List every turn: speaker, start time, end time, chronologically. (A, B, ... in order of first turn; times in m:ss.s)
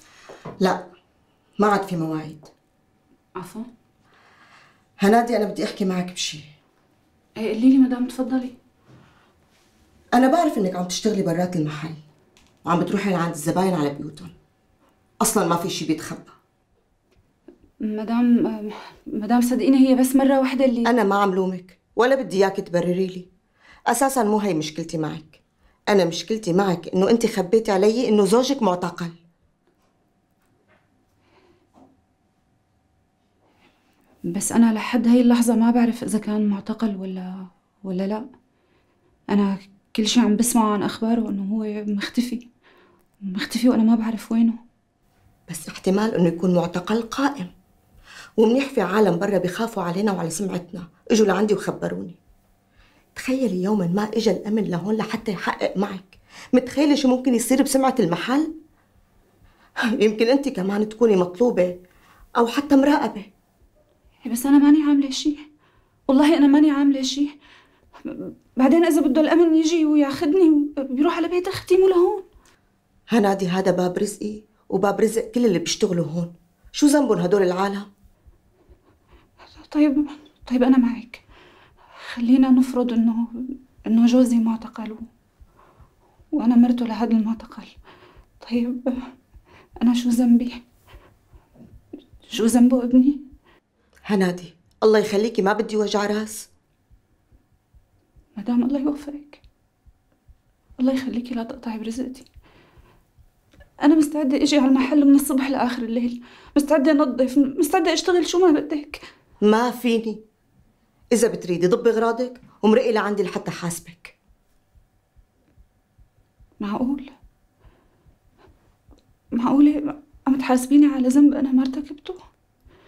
0:01.6-0:02.5 A
0:03.4-0:03.7 B
0:05.0-0:06.4 A
0:07.4-0:08.5 B
0:10.1-0:12.0 A
0:12.6-0:14.3 A
0:15.2-0:16.3 A
0:17.8-0:20.9 B
0:20.8-0:23.3 A
0:23.9-0:29.2 A
0:34.3-0:38.2 B
0:39.3-0:42.4 B
0:43.2-0:44.6 B
0:45.5-0:47.5 A
0:48.4-0:52.2 A
0:53.1-0:58.5 A
0:59.9-1:01.8 A
1:02.4-1:03.3 A
1:04.2-1:05.4 B
1:06.1-1:07.3 B
1:08.0-1:12.2 B
1:13.1-1:17.9 A
1:19.6-1:21.2 B
1:22.0-1:25.1 B
1:26.3-1:27.7 B
1:28.4-1:29.1 B
1:29.8-1:30.6 B
1:32.3-1:33.2 B
1:34.0-1:36.5 A
1:38.4-1:39.4 B
1:40.8-1:42.3 B
1:43.8-1:49.0 B
1:49.4-1:50.2 A
1:51.1-1:54.2 A
1:56.6-1:57.1 B
1:59.3-2:02.2 B